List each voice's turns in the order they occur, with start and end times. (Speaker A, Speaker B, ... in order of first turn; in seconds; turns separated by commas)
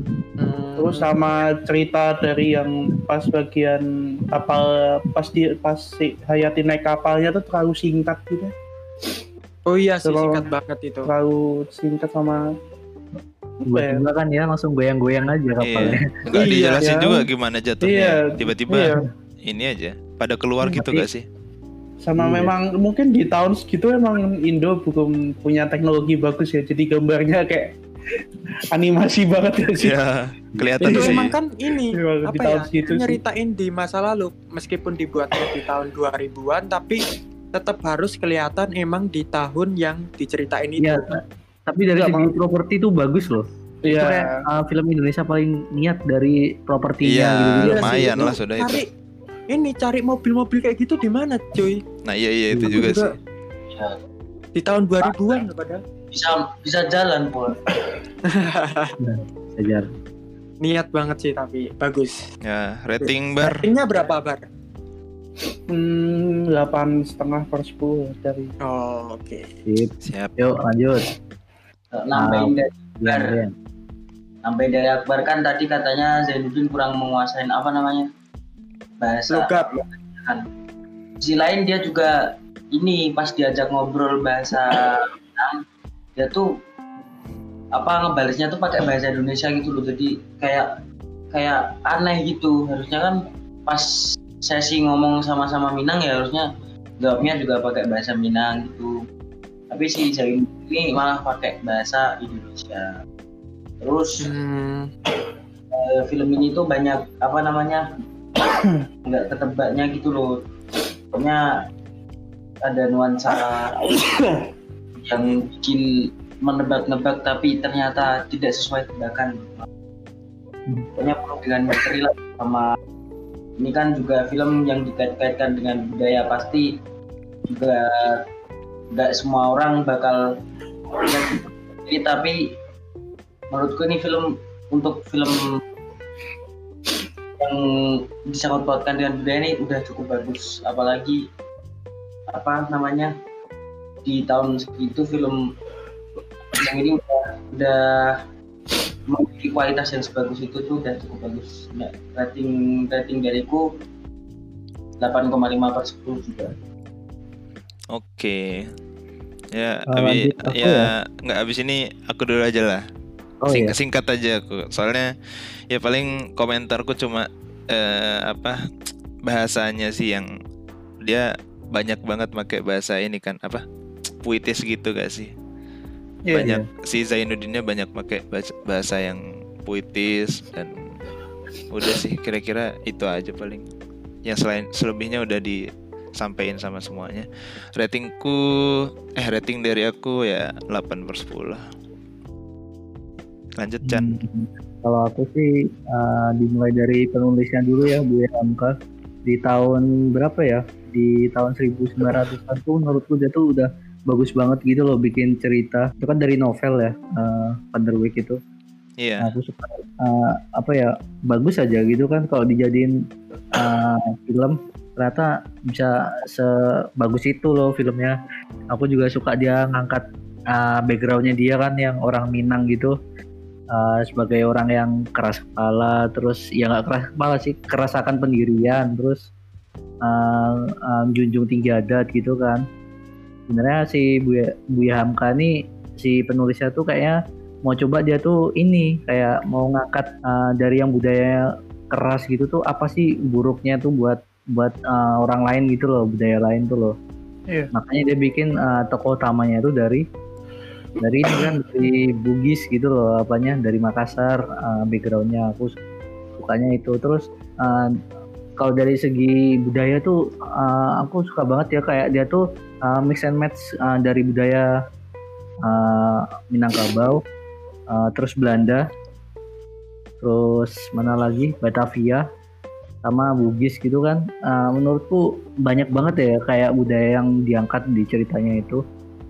Speaker A: 0.4-1.2, Speaker B: 0.8-8.5, Speaker A: 9.7-11.1, Speaker B: 10.1-10.5, Speaker B: 11.1-12.4, Speaker B: 13.6-14.0, Speaker C: 13.7-16.1, Speaker D: 15.6-21.2, Speaker A: 16.4-16.8, Speaker B: 16.5-17.3, Speaker B: 17.8-19.0, Speaker C: 20.8-21.1, Speaker B: 22.0-27.7, Speaker C: 22.2-22.5, Speaker B: 28.7-30.0, Speaker D: 29.8-31.4, Speaker C: 30.6-31.2, Speaker A: 30.9-41.1, Speaker B: 31.9-33.2, Speaker C: 40.8-48.3, Speaker B: 42.0-42.3, Speaker B: 43.8-44.5, Speaker D: 47.0-48.8, Speaker A: 47.6-48.9, Speaker A: 49.5-51.8, Speaker D: 52.0-53.2, Speaker C: 52.5-52.8, Speaker A: 52.6-53.1, Speaker E: 53.7-54.0, Speaker A: 54.6-55.8, Speaker E: 56.1-57.6, Speaker A: 58.2-59.0, Speaker C: 59.0-59.9, Speaker A: 60.6-62.2, Speaker D: 62.4-63.6, Speaker A: 63.4-64.4, Speaker B: 65.7-68.5, Speaker A: 68.6-69.5, Speaker C: 69.7-71.1, Speaker D: 70.0-70.4, Speaker E: 71.9-73.4, Speaker C: 72.1-73.5, Speaker E: 74.4-78.1, Speaker E: 79.0-80.4, Speaker A: 79.3-79.7, Speaker E: 81.2-82.2, Speaker E: 82.7-85.6, Speaker E: 86.2-86.5, Speaker E: 87.8-90.7, Speaker E: 91.3-93.9, Speaker E: 94.4-96.5, Speaker E: 97.0-98.9, Speaker E: 99.7-102.9, Speaker E: 103.8-104.3, Speaker A: 104.2-104.9, Speaker E: 105.7-107.8, Speaker E: 109.0-110.3, Speaker E: 111.1-111.4, Speaker E: 112.6-114.0, Speaker B: 114.0-114.5, Speaker E: 115.0-115.9, Speaker E: 116.4-119.7, Speaker E: 121.0-122.7, Speaker E: 123.6-126.7, Speaker E: 127.5-128.2, Speaker E: 128.9-130.2, Speaker E: 131.0-132.5, Speaker E: 133.5-135.5, Speaker E: 137.4-141.2, Speaker E: 142.3-143.1, Speaker E: 144.1-145.4, Speaker E: 146.5-148.2, Speaker E: 149.1-153.7, Speaker E: 155.0-156.5, Speaker D: 157.9-158.7, Speaker D: 159.5-162.8, Speaker C: 159.9-160.8, Speaker C: 163.4-163.8, Speaker D: 163.5-165.1, Speaker D: 165.7-168.6, Speaker D: 169.3-170.3, Speaker D: 171.0-173.6, Speaker D: 174.2-175.3, Speaker B: 176.3-176.6, Speaker D: 176.3-180.8, Speaker D: 181.7-183.7, Speaker D: 184.2-185.6, Speaker D: 186.2-191.6, Speaker D: 193.6-194.2, Speaker C: 193.8-198.7, Speaker C: 199.3-208.4, Speaker D: 209.0-209.3, Speaker C: 209.2-212.9, Speaker C: 213.5-218.2, Speaker C: 218.7-222.9, Speaker C: 223.7-229.3, Speaker C: 230.1-232.6, Speaker C: 233.5-247.0, Speaker C: 247.7-250.1, Speaker C: 251.0-255.8, Speaker C: 256.4-257.9, Speaker C: 258.6-264.7, Speaker C: 265.7-267.2, Speaker C: 267.9-268.9, Speaker C: 270.2-272.2, Speaker C: 273.1-278.8